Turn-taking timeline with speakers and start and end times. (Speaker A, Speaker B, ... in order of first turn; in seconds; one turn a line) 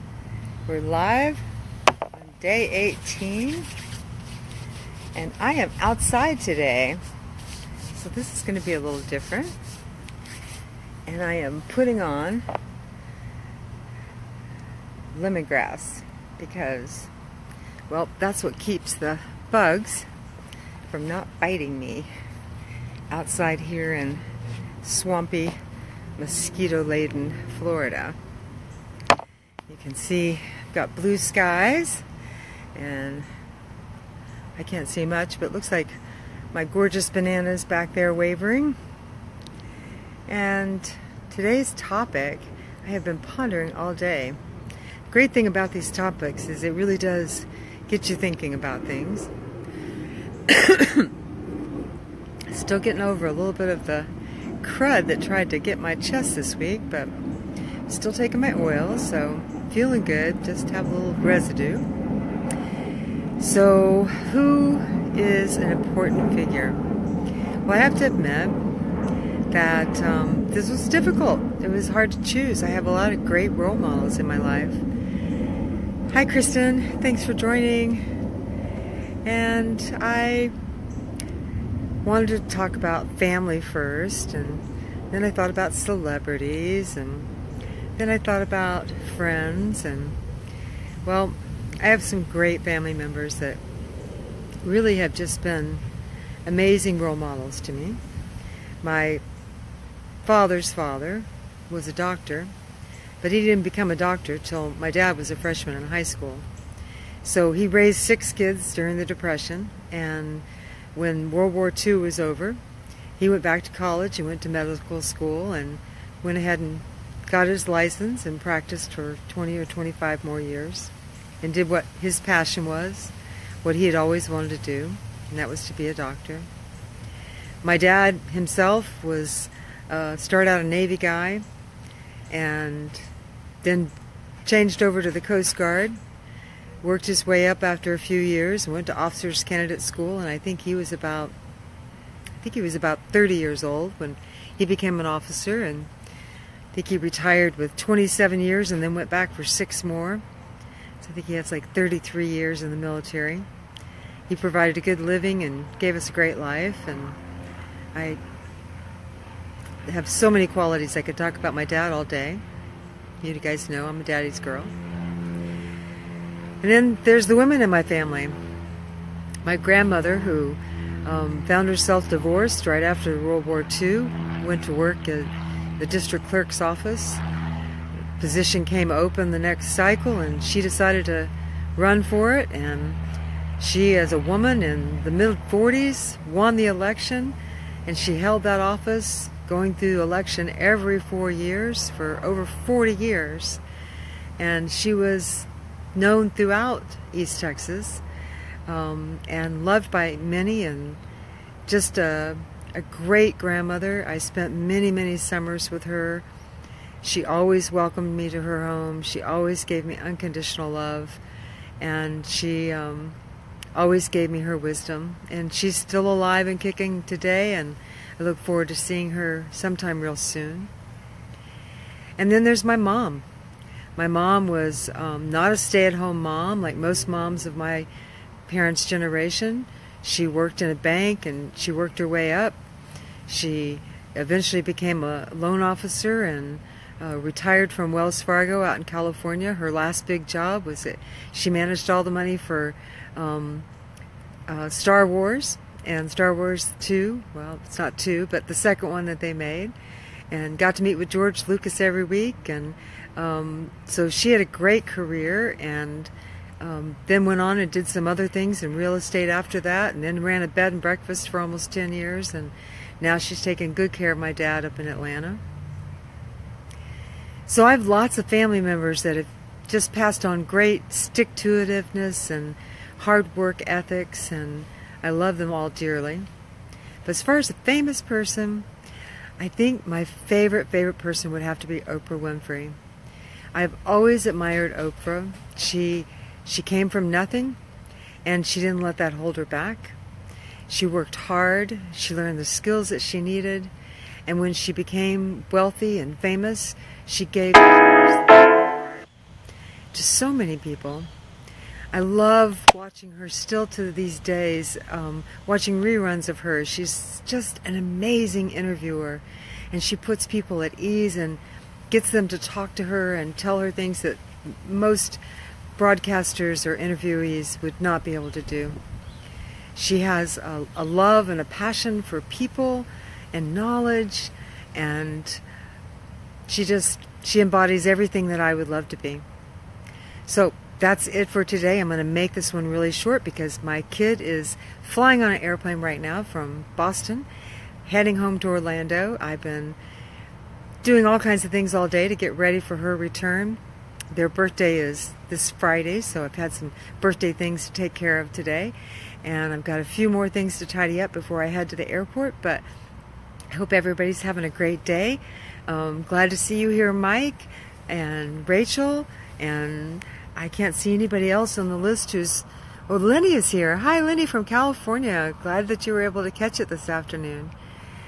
Speaker A: 0.7-1.4
Speaker A: 2.1-3.7
Speaker A: 5.1-7.0
Speaker A: 7.9-9.6
Speaker A: 11.1-12.4
Speaker A: 15.1-17.1
Speaker A: 17.9-20.1
Speaker A: 20.9-22.1
Speaker A: 23.1-24.2
Speaker A: 24.8-25.6
Speaker A: 26.2-28.2
Speaker A: 29.7-32.0
Speaker A: 32.7-33.3
Speaker A: 34.6-36.0
Speaker A: 36.5-38.8
Speaker A: 40.3-44.4
Speaker A: 45.1-49.3
Speaker A: 50.5-51.1
Speaker A: 52.5-54.1
Speaker A: 54.6-57.1
Speaker A: 57.9-61.9
Speaker A: 63.4-66.8
Speaker A: 67.7-68.6
Speaker A: 69.5-74.8
Speaker A: 76.1-78.0
Speaker A: 79.2-80.5
Speaker A: 82.0-87.3
Speaker A: 88.0-90.2
Speaker A: 91.0-93.6
Speaker A: 94.6-95.8
Speaker A: 96.5-98.0
Speaker A: 98.8-99.2
Speaker A: 100.2-102.5
Speaker A: 103.2-106.5
Speaker A: 107.2-112.6
Speaker A: 113.2-126.5
Speaker A: 127.6-131.4
Speaker A: 132.3-133.1
Speaker A: 133.6-133.9
Speaker A: 134.4-136.0
Speaker A: 136.8-141.3
Speaker A: 142.4-145.9
Speaker A: 146.7-150.2
Speaker A: 151.0-153.5
Speaker A: 154.3-157.2
Speaker A: 157.9-158.2
Speaker A: 159.9-162.4
Speaker A: 163.2-164.7
Speaker A: 166.6-168.4
Speaker A: 169.4-177.2
Speaker A: 178.2-183.0
Speaker A: 183.6-193.6
Speaker A: 194.4-198.0
Speaker A: 198.7-201.0
Speaker A: 201.7-206.2
Speaker A: 207.0-211.2
Speaker A: 211.8-213.2
Speaker A: 213.8-220.7
Speaker A: 222.2-223.2
Speaker A: 224.0-227.9
Speaker A: 228.5-232.6
Speaker A: 233.3-243.7
Speaker A: 244.5-249.8
Speaker A: 250.3-265.4
Speaker A: 267.5-276.3
Speaker A: 277.1-278.7
Speaker A: 279.4-282.8
Speaker A: 283.5-287.6
Speaker A: 288.2-289.9
Speaker A: 290.7-293.7
Speaker A: 294.3-299.0
Speaker A: 299.9-301.1
Speaker A: 301.9-315.2
Speaker A: 315.8-318.8
Speaker A: 319.8-325.4
Speaker A: 326.5-329.2
Speaker A: 330.2-337.3
Speaker A: 337.9-339.8
Speaker A: 340.8-343.6
Speaker A: 344.1-352.6
Speaker A: 353.5-367.5